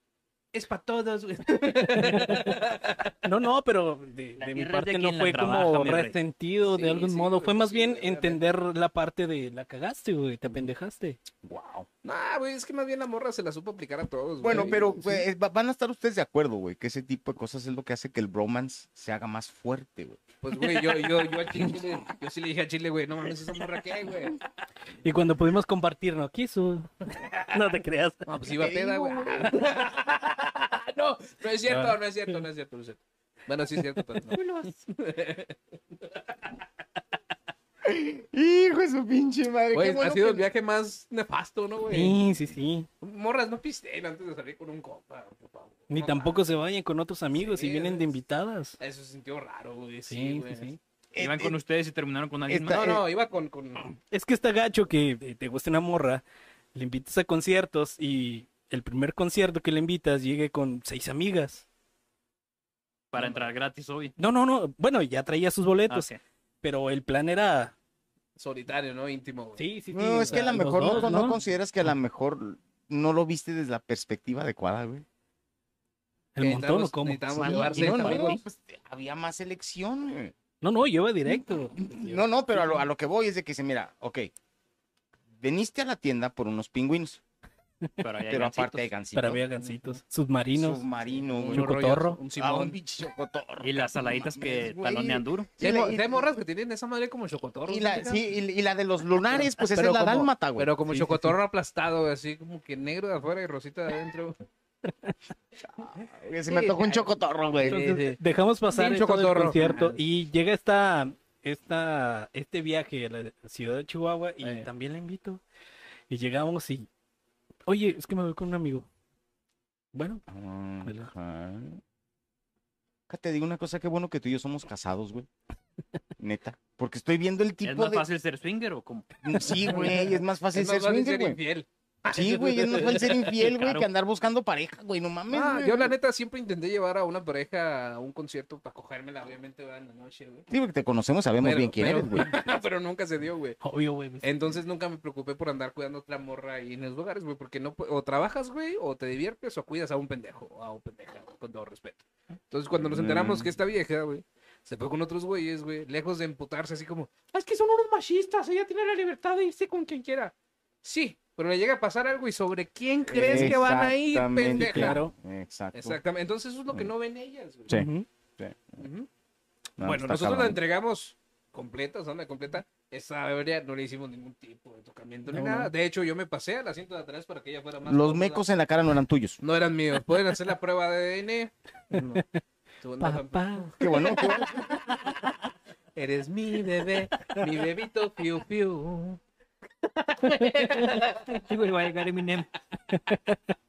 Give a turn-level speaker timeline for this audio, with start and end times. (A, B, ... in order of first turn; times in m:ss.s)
0:00.5-0:03.2 A
0:01.9-0:02.6 B
0:03.2-0:11.2 B
0:04.4-0:06.2 C
0:06.6-0:08.4 A
0:11.4-0:11.9 D
0:12.0-0:15.0 A
0:14.4-0:20.2 D
0:14.5-0:15.1 B
0:20.4-0:24.4 A
0:25.0-0:28.2 B
0:27.2-0:27.5 A
0:28.2-0:36.5 A
0:28.6-0:29.6 D
0:31.7-0:32.0 B
0:37.8-0:40.5 D
0:39.7-0:42.2 A
0:41.9-0:42.9 B
0:43.0-0:46.4 A
0:45.9-0:48.8 B
0:47.4-0:48.1 A
0:48.8-0:50.7 A
0:50.1-0:50.8 B
0:51.1-0:51.6 D
0:51.2-0:52.8 C
0:52.5-0:53.0 D
0:52.7-0:53.8 A
0:53.8-1:01.6 B
1:03.1-1:04.1 C
1:03.2-1:03.5 A
1:04.2-1:06.1 B
1:05.9-1:06.2 C
1:06.6-1:07.7 B
1:08.4-1:09.6 A
1:09.6-1:11.4 B
1:09.9-1:15.0 D
1:10.2-1:11.1 A
1:16.3-1:17.7 B
1:16.4-1:18.4 A
1:17.3-1:18.4 C
1:17.4-1:20.3 D
1:20.6-1:22.2 B
1:21.3-1:24.3 D
1:25.4-1:27.2 D
1:28.0-1:28.9 C
1:28.3-1:29.4 D
1:29.1-1:30.8 B
1:29.6-1:30.0 A
1:30.5-1:31.7 D
1:31.3-1:32.8 A
1:31.5-1:32.2 B
1:32.4-1:36.3 D
1:33.6-1:35.5 C
1:35.6-1:38.2 A
1:37.6-1:40.7 D
1:39.3-1:44.4 A
1:40.9-1:41.3 B
1:44.9-1:45.1 B
1:45.7-1:47.8 D
1:46.5-1:47.1 A
1:47.6-1:48.2 A
1:47.6-1:55.4 B
1:48.7-1:50.0 A
1:54.4-1:54.7 A
1:56.1-1:56.9 B
1:57.7-1:58.9 B
1:59.9-2:00.2 B
2:00.3-2:01.8 D
2:00.8-2:01.1 B
2:03.1-2:05.3 D
2:06.2-2:08.0 D
2:07.6-2:09.5 C
2:09.2-2:11.4 D
2:10.5-2:13.3 A
2:12.1-2:15.9 D
2:13.4-2:13.9 C
2:15.3-2:20.5 A
2:20.5-2:22.3 D
2:21.4-2:23.6 A
2:23.6-2:24.3 B
2:24.2-2:40.3 A
2:32.7-2:33.5 D
2:40.8-2:45.0 A
2:43.0-2:46.0 D
2:43.2-2:43.6 B
2:44.6-2:45.1 B
2:45.7-2:47.8 A
2:47.7-2:48.6 D
2:47.7-2:48.0 B
2:48.8-2:49.1 A
2:49.8-2:50.6 D
2:49.8-2:58.4 A
2:55.3-2:55.7 B
2:57.8-2:59.4 D
2:59.4-3:02.2 A
3:01.9-3:02.4 B
3:02.8-3:04.8 A
3:03.0-3:04.6 B
3:03.8-3:04.8 D
3:05.9-3:09.2 A
3:07.1-3:07.4 B
3:10.0-3:11.4 A
3:10.3-3:10.6 B
3:10.8-3:12.5 C
3:12.9-3:13.6 B